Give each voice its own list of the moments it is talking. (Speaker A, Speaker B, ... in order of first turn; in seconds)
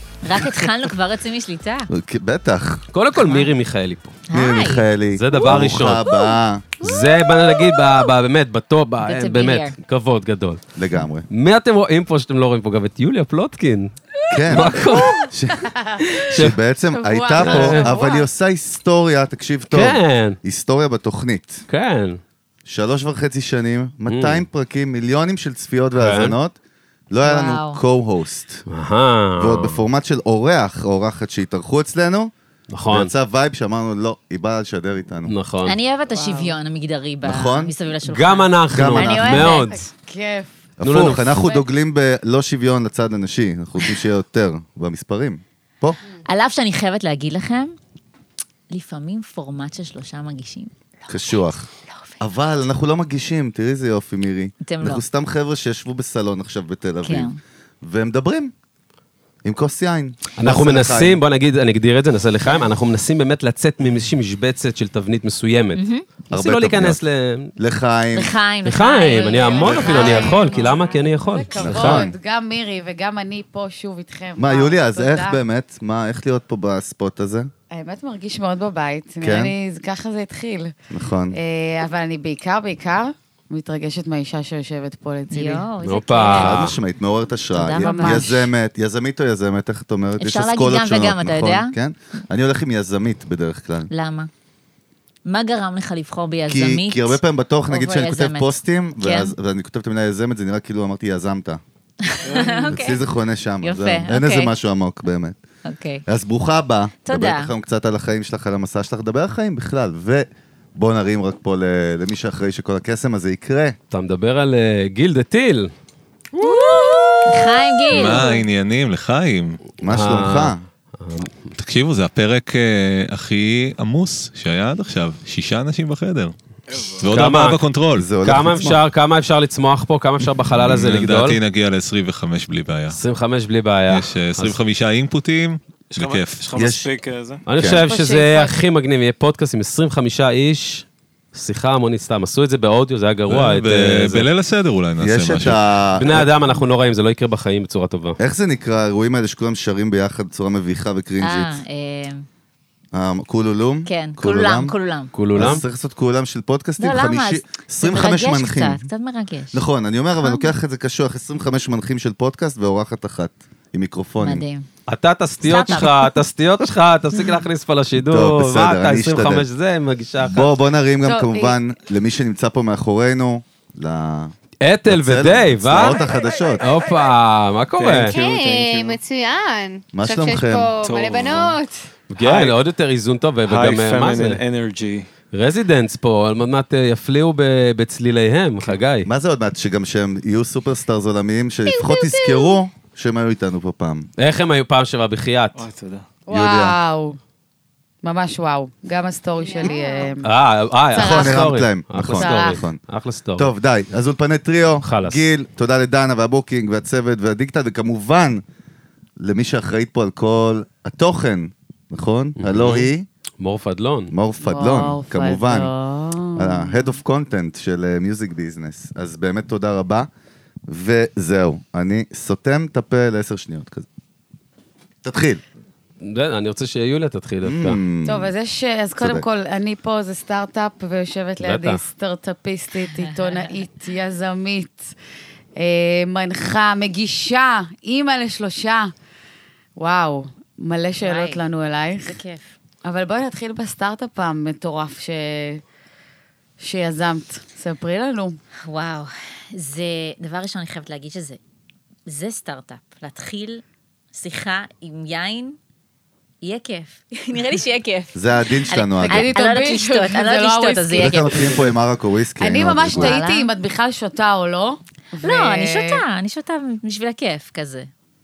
Speaker A: 0.2-1.9, 4.3-4.9, 9.0-9.8, 27.2-27.8, 35.6-39.9, 46.2-47.8, 48.7-52.2, 54.6-55.0, 57.0-57.4, 65.8-66.0, 68.1-70.3, 85.3-86.7, 87.5-88.5, 90.2-91.8, 93.9-94.3, 95.2-99.3, 102.0-103.0, 103.6-104.5, 105.7-106.0, 107.0-107.5, 116.4-118.4, 151.2-152.3, 153.9-155.1, 156.8-159.6, 160.2-160.5, 164.2-164.7, 165.4-165.9, 232.9-233.6, 241.0-241.4, 242.0-242.5, 248.7-251.4, 252.1-253.6, 254.1-255.6, 256.4-261.6, 262.9-263.5, 265.2-267.9
Speaker B: 1.9-2.8, 4.3-6.7, 10.8-11.3, 14.3-21.6, 22.7-26.6, 27.1-28.6, 29.4-32.3, 32.9-35.3, 37.2-37.7, 38.7-39.6, 40.8-46.0, 51.1-51.7, 52.2-58.5, 59.4-61.2, 66.3-67.0, 67.6-68.3, 71.5-72.1, 74.4-77.5, 79.2-79.5, 80.9-81.4, 86.3-93.9, 96.5-101.6, 102.7-105.4, 106.1-113.8, 119.8-120.6, 128.0-128.8, 136.6-136.9, 137.6-137.9, 145.0-146.3, 148.2-151.6, 152.9-154.8, 155.3-158.9, 159.5-164.5, 168.0-169.5, 170.2-174.3, 174.9-176.7, 179.9-180.7, 189.1-194.1, 196.3-196.8, 200.9-202.8, 203.4-208.4, 209.2-213.1, 214.1-215.7, 216.4-220.1, 220.7-223.9, 225.0-225.4, 227.4-228.3, 229.0-229.3, 258.1-259.3, 261.0-263.2
Speaker C: 2.9-4.2, 5.2-6.0, 6.8-10.6, 11.3-13.9, 14.5-15.3, 16.1-16.6, 17.4-17.9, 19.7-20.4, 21.7-22.2, 24.1-24.4, 25.9-26.4, 28.7-29.8, 32.7-33.1, 35.3-35.8, 38.0-39.8, 40.8-41.3, 60.4-67.5, 68.7-72.1, 85.8-86.8, 113.9-115.7, 116.4-117.4, 119.9-121.5, 127.1-127.6, 128.2-131.4, 132.9-134.6, 137.5-144.3, 146.0-148.2, 155.2-155.6, 164.9-170.6, 174.6-176.0, 176.6-178.3, 182.1-184.4, 185.3-189.1, 194.2-195.7, 200.2-203.5, 204.8-205.2, 212.4-214.1, 226.0-227.8, 231.4-231.8
Speaker D: 14.9-16.3, 16.9-18.3, 36.1-36.5, 39.7-41.6, 69.1-75.4, 77.7-80.7, 81.3-85.7, 87.8-88.3, 137.8-138.6, 171.0-171.6, 196.3-197.2, 198.0-200.3, 200.9-201.6, 202.2-202.6, 214.4-217.0, 228.1-234.9, 235.6-238.9, 239.8-242.2, 242.8-245.6, 246.6-248.4, 259.1-261.3, 262.4-266.0
Speaker E: 69.8-70.8, 178.1-181.9, 191.8-192.5, 199.4-200.2
Speaker F: 70.0-70.2, 102.2-102.8, 126.7-127.1, 135.9-137.4, 177.8-179.0, 180.8-181.6, 182.2-182.6, 183.4-185.1, 195.6-196.1
Speaker G: 117.9-119.7, 121.6-126.3, 127.0-128.1, 130.6-133.0, 133.9-136.5, 143.3-145.6